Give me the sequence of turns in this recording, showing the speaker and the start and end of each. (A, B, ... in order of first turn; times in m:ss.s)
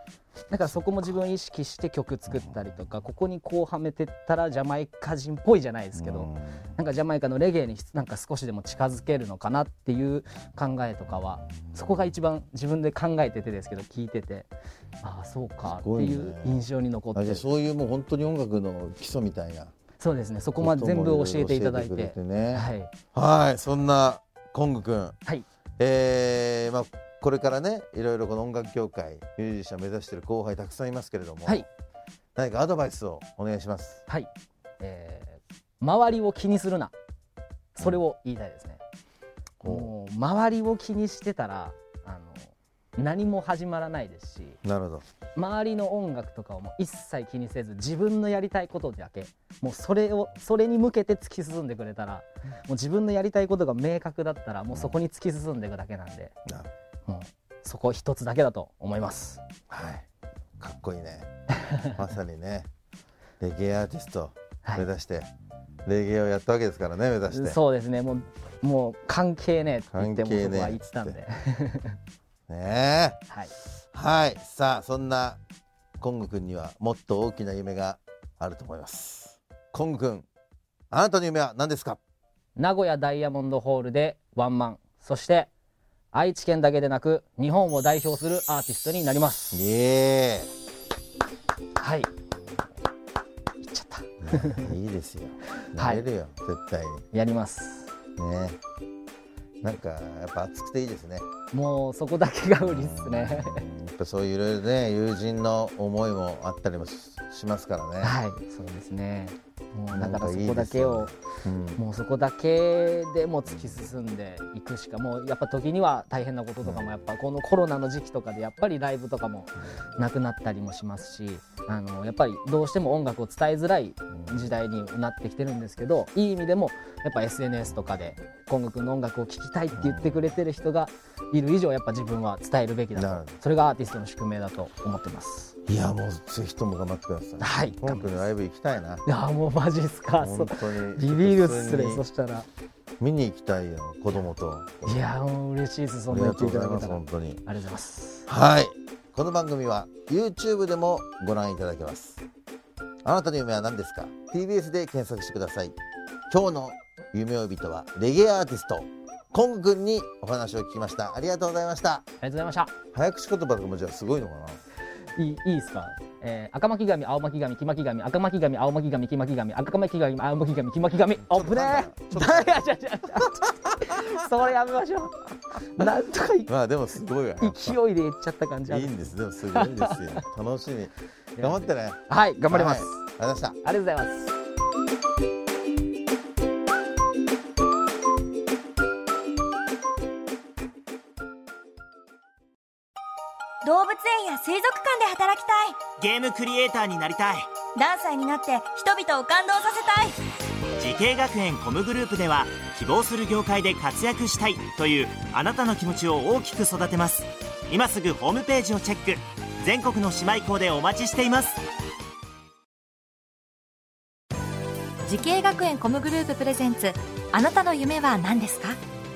0:00.5-0:14.5 A
0:00.6-0:01.1 B
0:05.9-0:06.7 B
0:15.0-0:17.4 A
0:15.6-0:16.6 B
0:17.1-0:19.7 B
0:20.0-0:22.9 A
0:20.6-0:25.2 B
0:25.8-0:31.7 B
0:32.4-0:34.0 B
0:34.1-0:36.9 A
0:37.8-0:38.8 A
0:39.6-0:39.9 B
0:39.6-0:44.6 A
0:44.6-0:45.0 B
0:45.4-0:56.4 A
0:54.7-0:55.0 B
0:57.1-0:59.4 A
0:59.7-1:00.1 B
1:00.6-1:01.3 B
1:01.8-1:02.7 B
1:03.4-1:05.3 B
1:05.8-1:07.6 B
1:07.3-1:12.0 A
1:09.9-1:11.2 B
1:12.5-1:13.2 B
1:13.9-1:15.4 B
1:16.0-1:20.3 B
1:20.9-1:22.0 B
1:22.6-1:25.5 A
1:26.1-1:29.6 A
1:29.5-1:30.5 B
1:31.8-1:32.1 A
1:33.6-1:34.7 A
1:34.2-1:37.1 B
1:35.7-1:36.1 A
1:37.1-1:38.0 A
1:38.2-1:38.6 B
1:39.6-1:41.3 B
1:41.5-1:43.7 A
1:42.6-1:48.2 B
1:48.0-1:51.2 A
1:49.9-1:51.8 B
1:51.8-2:15.6 A
1:53.5-1:53.9 B
1:56.6-1:57.0 B
2:04.2-2:04.5 B
2:09.7-2:10.3 B
2:13.0-2:13.4 B
2:15.7-2:19.0 B
2:17.4-2:18.3 A
2:19.0-2:22.5 A
2:20.2-2:22.0 B
2:23.0-2:25.0 B
2:24.8-2:28.3 A
2:26.1-2:27.4 B
2:28.3-2:32.2 B
2:33.0-2:35.8 B
2:36.3-2:42.0 B
2:42.2-2:42.7 A
2:42.9-2:44.6 B
2:45.2-2:56.5 A
2:51.2-2:52.7 B
2:56.5-2:57.8 B
2:57.4-3:00.2 A
2:58.7-3:03.6 B
3:01.4-3:03.1 A
3:03.6-3:04.3 A
3:13.6-3:15.8 C
3:16.0-3:17.5 D
3:17.8-3:20.2 C
3:20.8-3:31.6 D
3:35.0-3:38.8 E